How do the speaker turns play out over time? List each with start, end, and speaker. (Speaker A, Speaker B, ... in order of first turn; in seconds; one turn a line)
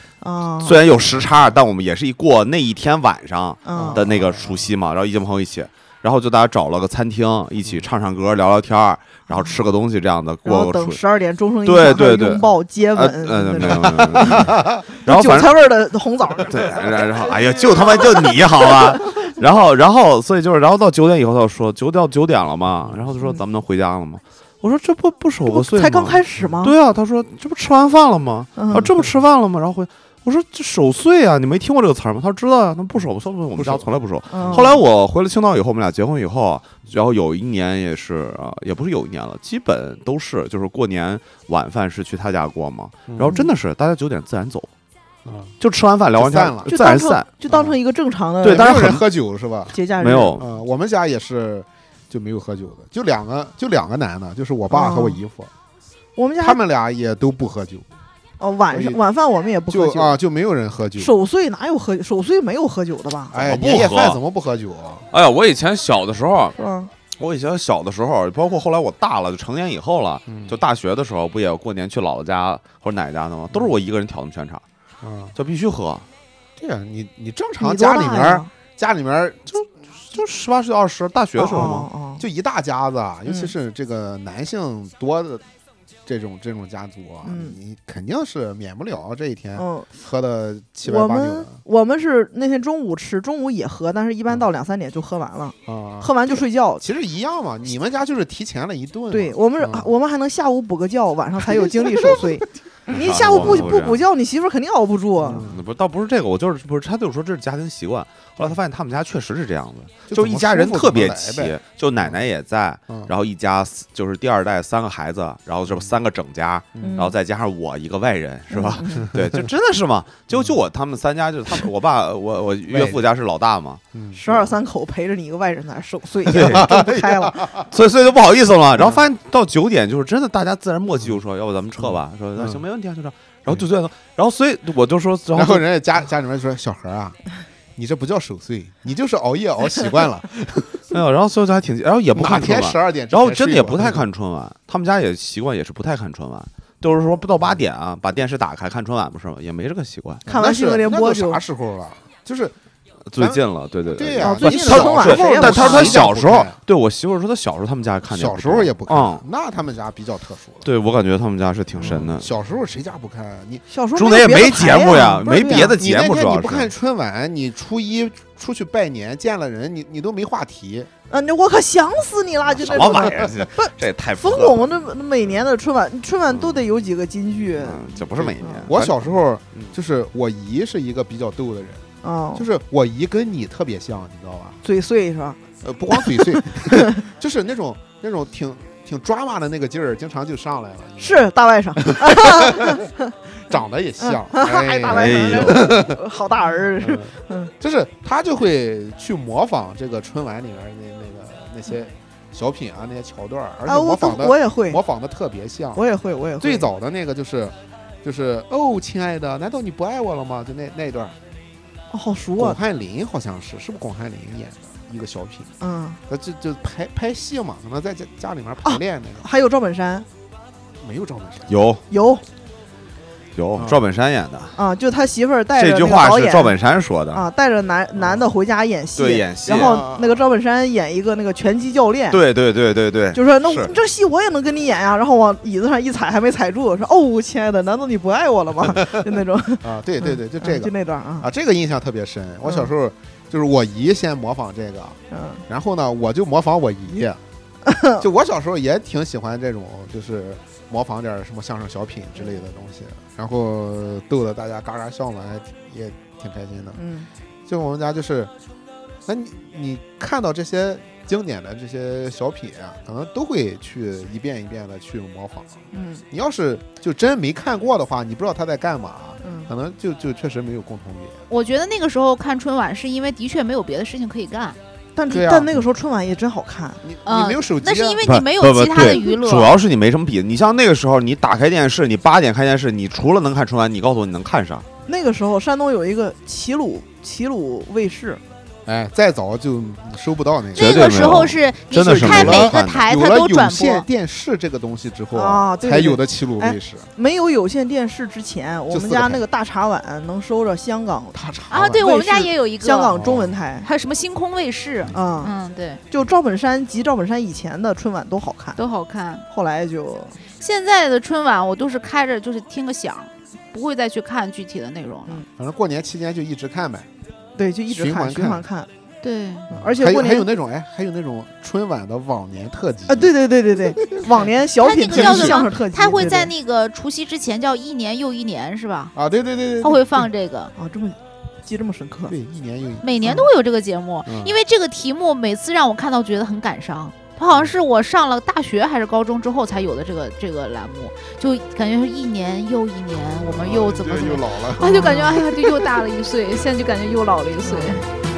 Speaker A: 0.2-0.8
Speaker B: 0.6-11.0
Speaker A: 3.6-4.0
Speaker C: 3.7-4.6
Speaker A: 10.4-18.4
Speaker B: 11.6-15.6
Speaker C: 11.9-12.5
Speaker C: 13.6-14.8
Speaker B: 16.5-44.7
Speaker A: 25.4-26.7
Speaker A: 28.6-29.1
Speaker C: 28.7-29.0
Speaker C: 33.6-34.7
Speaker A: 34.3-34.8
Speaker C: 43.1-43.4
Speaker C: 45.2-45.5
Speaker B: 45.6-47.3
Speaker C: 46.1-46.8
Speaker A: 46.7-49.0
Speaker C: 47.5-47.8
Speaker B: 48.4-49.0
Speaker C: 48.4-49.8
Speaker A: 49.7-50.4
Speaker B: 50.0-50.4
Speaker C: 50.4-55.5
Speaker A: 54.7-55.2
Speaker A: 56.1-56.6
Speaker C: 56.4-57.8
Speaker A: 58.4-60.1
Speaker C: 58.7-59.0
Speaker C: 59.7-61.1
Speaker A: 61.0-63.3
Speaker C: 63.3-65.1
Speaker B: 63.4-64.2
Speaker B: 65.1-66.6
Speaker A: 66.6-66.9
Speaker B: 67.2-74.6
Speaker C: 70.3-70.6
Speaker C: 75.0-75.3
Speaker B: 75.3-76.1
Speaker C: 76.6-79.5
Speaker A: 77.6-78.5
Speaker B: 79.5-81.9
Speaker A: 81.4-82.2
Speaker C: 81.5-85.4
Speaker A: 83.3-83.5
Speaker C: 86.0-91.6
Speaker A: 87.2-87.6
Speaker A: 89.5-89.9
Speaker A: 90.8-96.8
Speaker C: 95.7-99.9
Speaker A: 99.1-105.5
Speaker C: 101.4-103.7
Speaker B: 102.9-104.0
Speaker C: 105.2-105.6
Speaker B: 105.4-123.8
Speaker C: 110.1-112.1
Speaker C: 116.7-117.0
Speaker A: 116.8-117.2
Speaker A: 118.5-119.1
Speaker C: 122.7-123.0
Speaker C: 123.9-124.5
Speaker A: 124.1-127.5
Speaker B: 126.2-135.6
Speaker C: 126.3-127.7
Speaker C: 131.8-132.6
Speaker C: 135.3-137.2
Speaker C: 137.8-140.8
Speaker B: 140.9-150.2
Speaker C: 142.1-144.0
Speaker A: 150.3-151.4
Speaker C: 150.3-152.5
Speaker B: 153.1-159.2
Speaker C: 153.2-156.6
Speaker A: 154.2-156.0
Speaker C: 158.1-160.7
Speaker B: 160.6-162.3
Speaker C: 161.8-163.7
Speaker A: 163.7-165.7
Speaker B: 163.9-166.7
Speaker C: 165.5-170.9
Speaker A: 171.1-178.7
Speaker C: 172.5-173.3
Speaker B: 172.6-174.7
Speaker B: 177.6-179.7
Speaker C: 178.1-184.6
Speaker A: 182.0-182.5
Speaker A: 184.6-185.4
Speaker C: 185.6-191.3
Speaker A: 185.9-187.0
Speaker A: 191.0-197.5
Speaker C: 191.9-192.8
Speaker C: 193.4-196.0
Speaker B: 194.8-195.8
Speaker C: 196.8-205.8
Speaker A: 203.7-204.8
Speaker A: 205.7-206.7
Speaker C: 206.4-211.1
Speaker A: 211.9-212.6
Speaker C: 212.4-215.5
Speaker A: 215.6-216.0
Speaker C: 216.1-219.2
Speaker A: 218.6-220.1
Speaker C: 220.8-221.6
Speaker B: 221.5-221.8
Speaker A: 221.9-222.2
Speaker B: 223.3-224.6
Speaker A: 224.6-226.5
Speaker B: 225.5-227.2
Speaker A: 227.1-232.2
Speaker C: 228.0-228.2
Speaker B: 228.9-229.8
Speaker C: 229.5-230.2
Speaker B: 232.1-233.8
Speaker A: 233.1-241.3
Speaker C: 239.6-247.2
Speaker A: 245.1-245.4
Speaker A: 247.7-248.0
Speaker C: 248.0-256.8
Speaker A: 256.8-257.1
Speaker C: 257.4-258.3
Speaker C: 259.1-271.2
Speaker A: 265.7-266.0
Speaker A: 269.2-269.5
Speaker D: 271.3-274.6
Speaker A: 274.9-276.8
Speaker C: 275.1-275.6
Speaker C: 276.8-278.1
Speaker D: 277.0-279.5
Speaker B: 278.0-284.7
Speaker A: 284.9-288.2
Speaker C: 288.6-291.3
Speaker B: 290.5-292.9
Speaker D: 290.5-293.9
Speaker C: 291.9-296.9
Speaker A: 295.1-301.2
Speaker C: 298.7-299.2
Speaker C: 301.1-301.8
Speaker D: 301.5-302.9
Speaker A: 301.8-303.7
Speaker C: 302.9-303.3
Speaker D: 303.6-305.8
Speaker A: 304.9-305.3
Speaker A: 305.9-308.6
Speaker D: 308.6-309.2
Speaker A: 309.3-310.2
Speaker D: 310.4-315.2
Speaker C: 315.4-316.9
Speaker A: 317.4-318.7
Speaker C: 317.7-318.4
Speaker D: 319.0-319.5
Speaker A: 319.5-320.3
Speaker C: 319.5-324.3
Speaker A: 322.9-326.3
Speaker D: 324.6-328.9
Speaker C: 324.9-325.5
Speaker C: 328.9-330.1
Speaker D: 329.6-330.5
Speaker A: 330.6-332.1
Speaker C: 332.1-333.0
Speaker D: 332.8-347.8
Speaker C: 334.1-334.4
Speaker C: 343.2-345.1
Speaker A: 344.6-345.1
Speaker A: 347.5-347.8